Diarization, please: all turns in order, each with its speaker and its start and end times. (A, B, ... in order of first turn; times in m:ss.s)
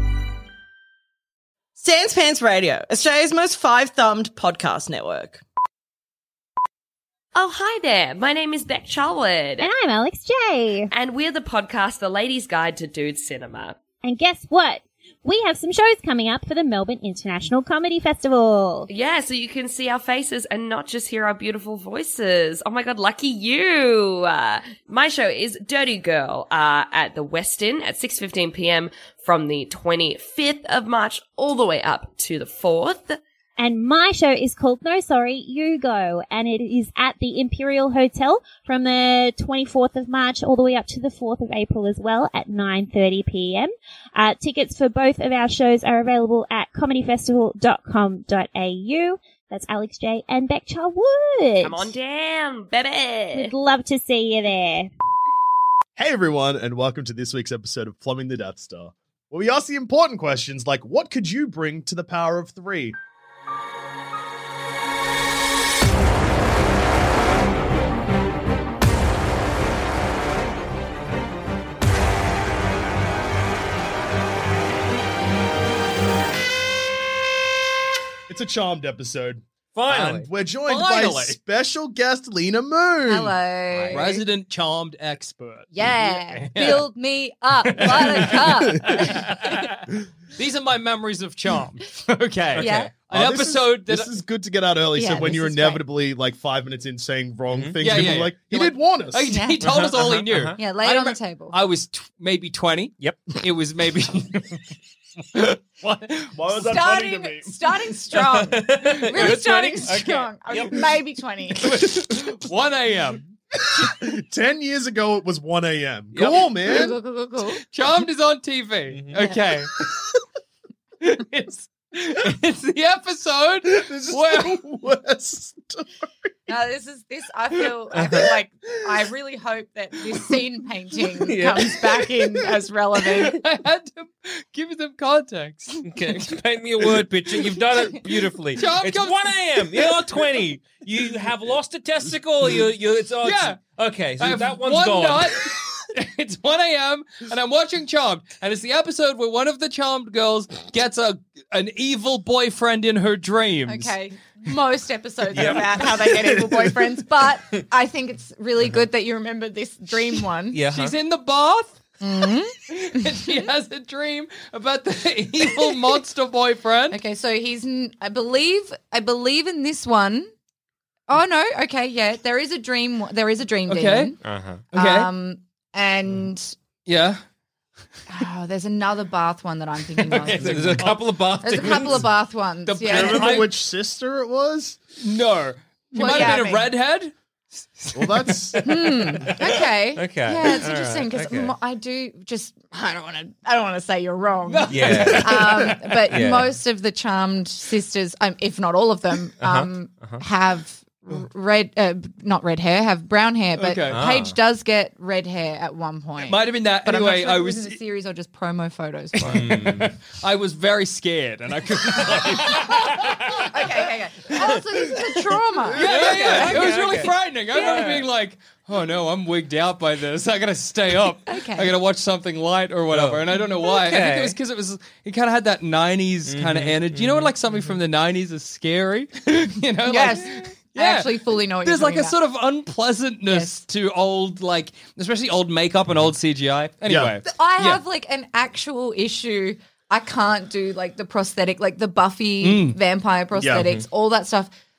0:01.8-0:05.4 A
0:07.4-0:09.7 B
0:09.6-0:10.9 C
0:10.9-0:13.8 B
0:14.0-0:18.9 C
0:18.9-0:33.2 B
0:33.6-0:51.9 C
0:51.6-0:53.5 B
0:53.3-0:54.9 C
0:56.0-1:03.0 D
1:18.3-1:23.4 D
1:19.7-1:20.3 E
1:20.6-1:21.4 F
1:23.0-1:24.2 G
1:23.7-1:24.1 E
1:23.9-1:26.9 F
1:25.7-1:29.6 G
1:27.8-1:29.6 F
1:30.4-1:34.1 F
1:32.5-1:33.0 E
1:32.6-1:32.9 G
1:33.1-1:39.3 D
1:34.9-1:35.8 G
1:37.5-1:38.1 E
1:37.8-1:44.6 F
1:39.3-1:39.6 G
1:39.6-1:40.6 E
1:40.6-1:41.6 G
1:43.0-1:43.3 E
1:45.3-1:46.4 F
1:46.3-1:47.5 D
1:46.5-1:51.7 G
1:48.2-1:50.8 E
1:49.1-1:50.7 F
1:51.6-1:53.2 F
1:53.9-1:57.0 D
1:56.1-1:56.4 F
1:56.7-1:57.6 G
1:57.7-1:59.8 F
1:58.9-1:59.4 E
2:01.0-2:04.6 F
2:03.7-2:05.9 D
2:06.5-2:13.4 G
2:08.0-2:08.3 E
2:11.2-2:11.8 E
2:13.0-2:16.3 F
2:15.8-2:25.4 E
2:18.6-2:20.0 F
2:23.2-2:23.6 F
2:24.2-2:33.9 F
2:33.7-2:40.6 G
2:35.3-2:35.7 E
2:40.5-2:41.0 E
2:40.7-2:41.8 F
2:42.0-2:42.6 G
2:42.7-2:47.0 F
2:46.9-2:50.3 G
2:51.1-2:54.2 G
2:53.7-2:54.1 F
2:54.2-2:54.6 E
2:54.7-2:55.1 F
2:54.7-2:56.6 G
2:56.9-2:57.2 F
2:58.1-3:00.9 G
3:00.0-3:01.0 F
3:00.4-3:02.1 E
3:01.4-3:03.5 G
3:02.7-3:03.5 F
3:02.8-3:04.8 D
3:05.0-3:09.4 F
3:05.9-3:06.7 G
3:07.9-3:08.9 D
3:08.6-3:29.5 G
3:10.0-3:11.6 E
3:14.5-3:16.0 F
3:14.7-3:16.5 E
3:19.4-3:20.2 E
3:23.6-3:24.0 F
3:23.9-3:24.4 E
3:26.2-3:27.8 F
3:29.2-3:33.1 F
3:29.2-3:29.9 E
3:32.5-3:37.1 G
3:32.6-3:33.4 E
3:35.7-3:57.8 F
3:35.8-3:38.1 E
3:41.3-3:41.7 G
3:42.9-3:44.4 E
3:46.3-3:47.7 E
3:49.9-3:52.2 G
3:53.3-3:53.6 G
3:56.9-3:57.2 D
3:57.2-4:04.5 G
4:02.4-4:02.8 F
4:03.4-4:03.8 D